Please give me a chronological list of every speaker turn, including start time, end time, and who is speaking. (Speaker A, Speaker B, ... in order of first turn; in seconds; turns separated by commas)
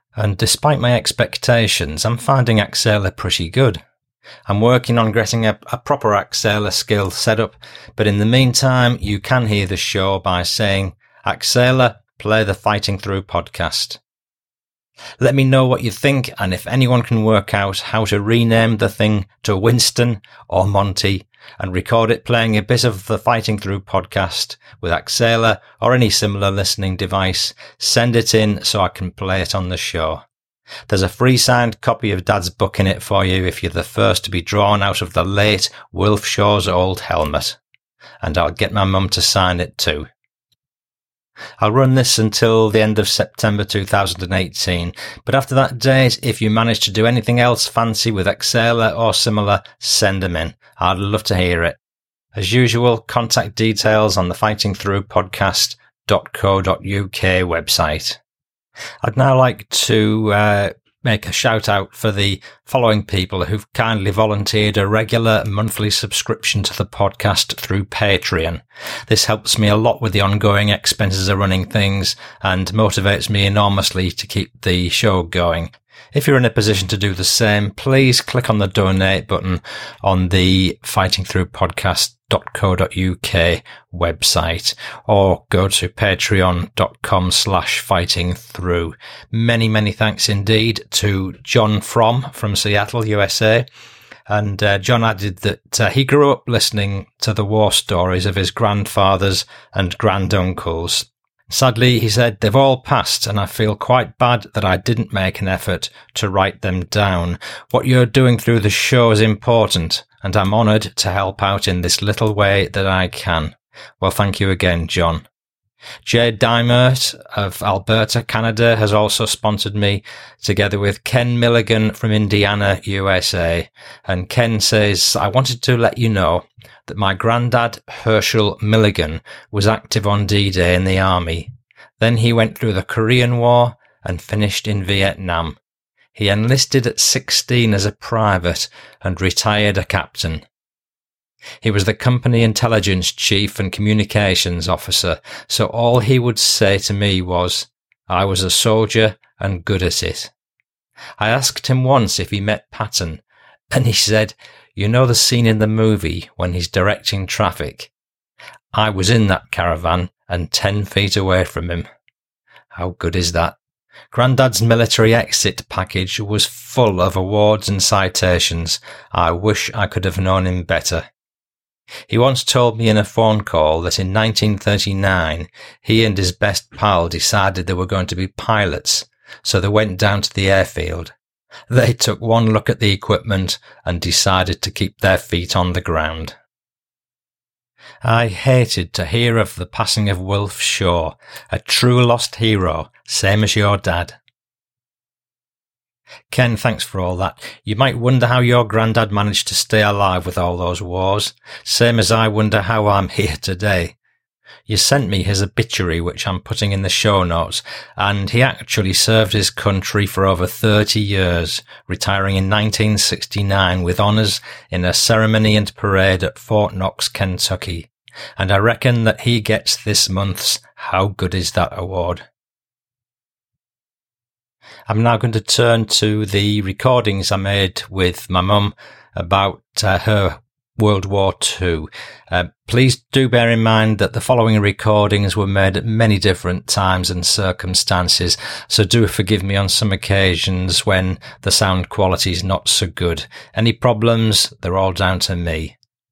Speaker A: 0.2-3.8, Speaker A: 4.5-14.0, Speaker A: 15.2-30.2, Speaker A: 30.9-37.6, Speaker A: 38.2-40.1, Speaker A: 41.6-51.8, Speaker A: 52.4-58.2, Speaker A: 59.0-93.7, Speaker A: 94.3-115.2, Speaker A: 116.0-135.6, Speaker A: 136.2-140.4, Speaker A: 141.6-150.3, Speaker A: 151.2-157.9, Speaker A: 158.7-161.9, Speaker A: 162.8-163.6, Speaker A: 164.1-171.1, Speaker A: 172.1-181.1, Speaker A: 181.7-186.3, Speaker A: 188.0-194.2, Speaker A: 196.3-203.9, Speaker A: 204.7-222.2, Speaker A: 224.9-245.8